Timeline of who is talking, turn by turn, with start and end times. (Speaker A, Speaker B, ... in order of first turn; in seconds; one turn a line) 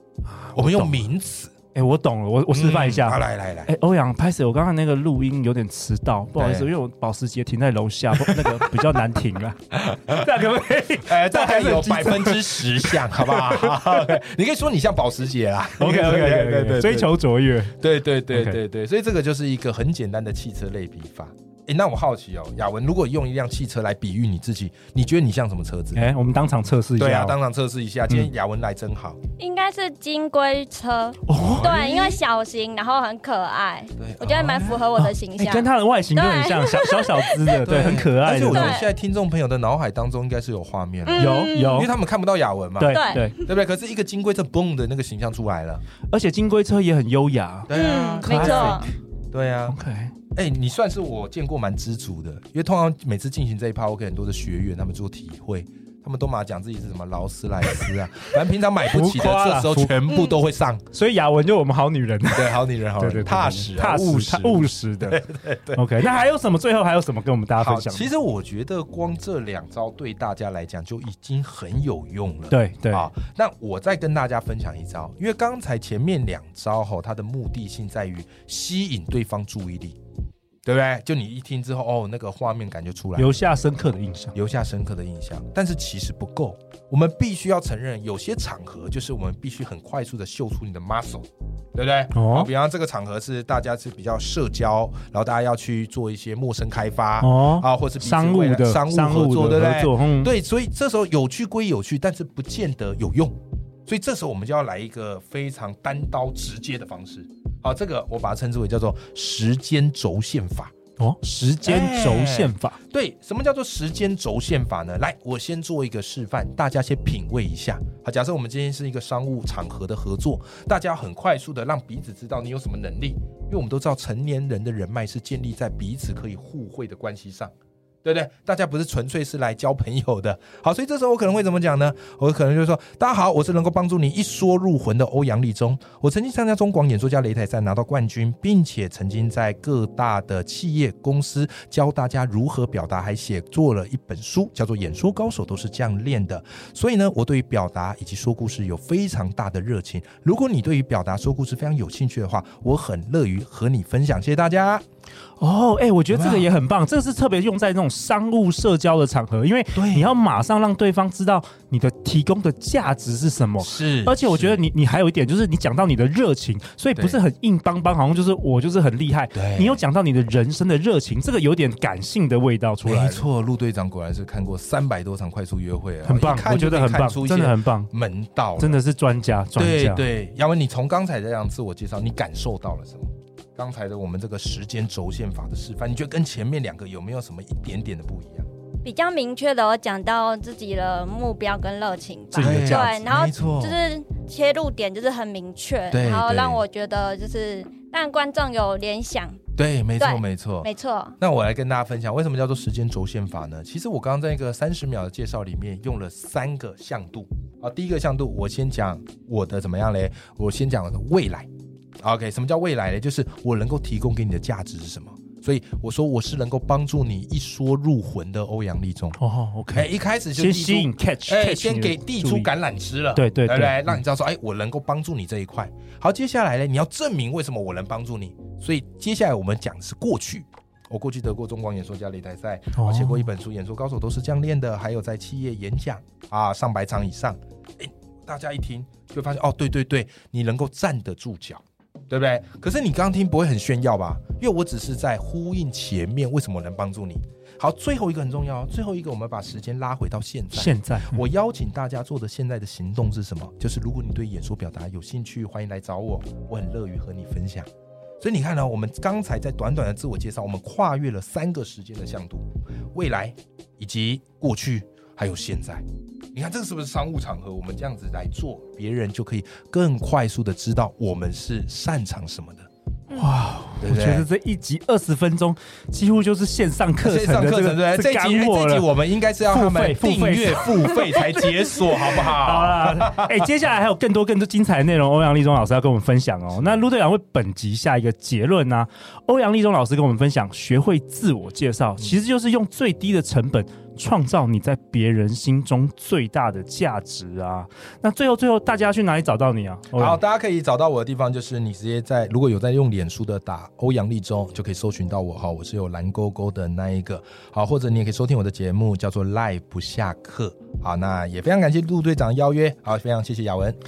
Speaker A: 0.2-1.0
Speaker B: 0.5-1.5
Speaker A: 1.7-14.1
Speaker B: 2.5-3.7
Speaker B: 6.3-6.7
Speaker B: 8.2-8.7
Speaker B: 9.8-10.2
Speaker B: 11.1-17.1
Speaker A: 15.8-17.7
Speaker B: 17.7-26.0
Speaker A: 18.3-18.6
Speaker A: 25.9-27.4
Speaker B: 27.0-29.2
Speaker C: 29.4-37.7
Speaker A: 31.2-32.1
Speaker B: 31.4-31.9
Speaker B: 34.0-34.9
Speaker A: 35.0-38.8
Speaker B: 37.5-45.8
Speaker C: 38.3-38.9
Speaker C: 41.0-41.9
Speaker A: 41.2-41.9
Speaker A: 42.8-43.4
Speaker C: 42.9-43.4
Speaker A: 46.1-47.7
Speaker B: 47.7-49.8
Speaker C: 47.7-48.9
Speaker A: 48.2-48.9
Speaker A: 49.7-50.1
Speaker B: 50.3-60.8
Speaker A: 58.9-59.9
Speaker C: 60.1-60.4
Speaker A: 60.9-65.2
Speaker B: 62.3-65.8
Speaker A: 65.7-68.1
Speaker B: 67.6-80.0
Speaker A: 72.5-73.0
Speaker B: 80.6-83.3
Speaker A: 83.2-84.3
Speaker B: 84.3-110.7
Speaker A: 92.1-92.5
Speaker A: 97.2-100.3
Speaker A: 111.0-112.8
Speaker B: 111.6-127.5
Speaker B: 128.0-154.8
Speaker A: 155.4-173.2
Speaker B: 156.1-156.5
Speaker B: 159.7-160.1
Speaker B: 163.6-164.6
Speaker B: 166.9-167.2
Speaker B: 169.3-169.8
Speaker B: 172.8-178.8
Speaker A: 176.0-177.9
Speaker A: 178.6-180.1
Speaker B: 179.6-188.5
Speaker C: 188.8-199.4
Speaker A: 192.3-193.1
Speaker B: 192.3-193.8
Speaker B: 195.9-196.6
Speaker B: 199.6-219.2
Speaker C: 200.0-201.2
Speaker A: 219.2-222.5
Speaker B: 219.7-257.7
Speaker A: 223.1-224.0
Speaker A: 232.8-233.2
Speaker A: 250.5-251.2
Speaker B: 258.2-272.7
Speaker A: 273.1-278.9
Speaker B: 273.8-274.3
Speaker B: 277.0-283.4
Speaker A: 279.5-300.2
Speaker B: 299.9-313.8